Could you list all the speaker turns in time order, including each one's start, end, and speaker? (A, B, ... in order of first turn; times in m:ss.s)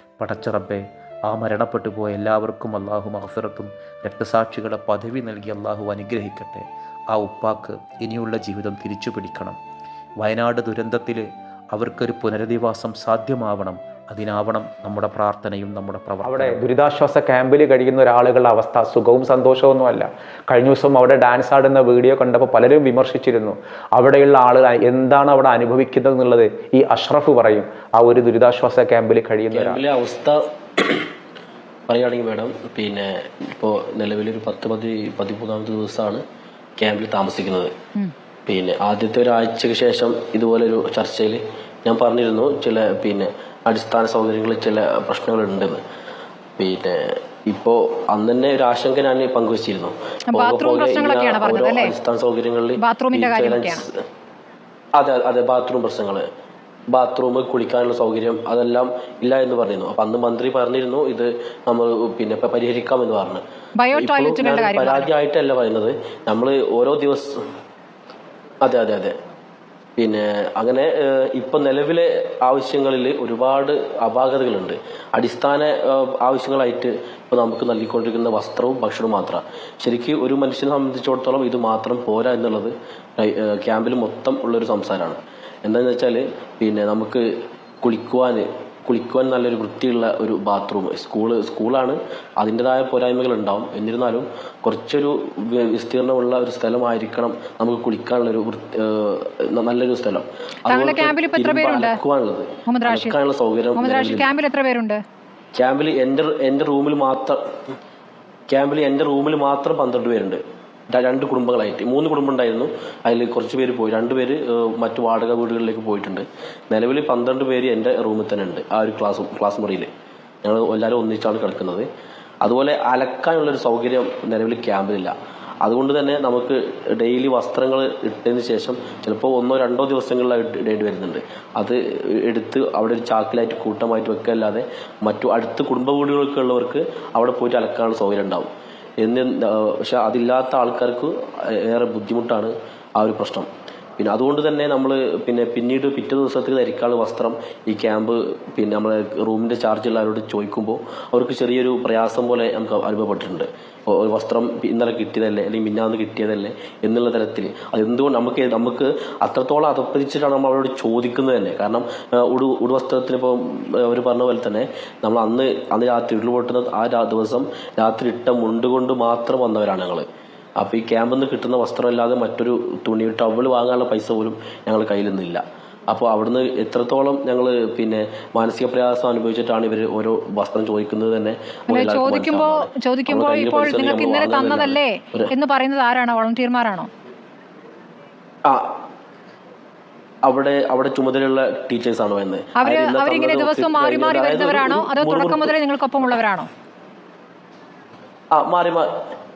0:00.2-0:09.6 A
0:10.2-0:16.6 A
0:16.2-0:29.8 B
0:29.5-0:31.1 C
0:31.9-0:36.2 C
0:36.8-0:37.7 C
0:38.5-0:45.8 C
0:46.6-0:54.0 C
0:50.3-0:51.9 D
0:52.8-0:53.8 D
0:55.0-0:56.2 C
0:56.9-1:03.4 C
1:03.8-1:05.1 D
1:03.9-1:07.4 C
1:08.6-1:09.1 C
1:10.0-1:27.3 C
1:27.8-1:44.3 C
1:40.7-1:42.0 D
1:42.7-1:43.2 D
1:43.8-1:45.0 D
1:45.6-1:47.4 C
1:48.5-1:59.9 C
2:00.4-2:01.9 C
2:02.4-2:18.5 C
2:19.0-2:50.1 C
2:50.6-3:05.3 C
3:01.7-3:06.9 D
3:10.2-3:15.6 C
3:12.6-3:16.5 D
3:18.3-3:18.9 C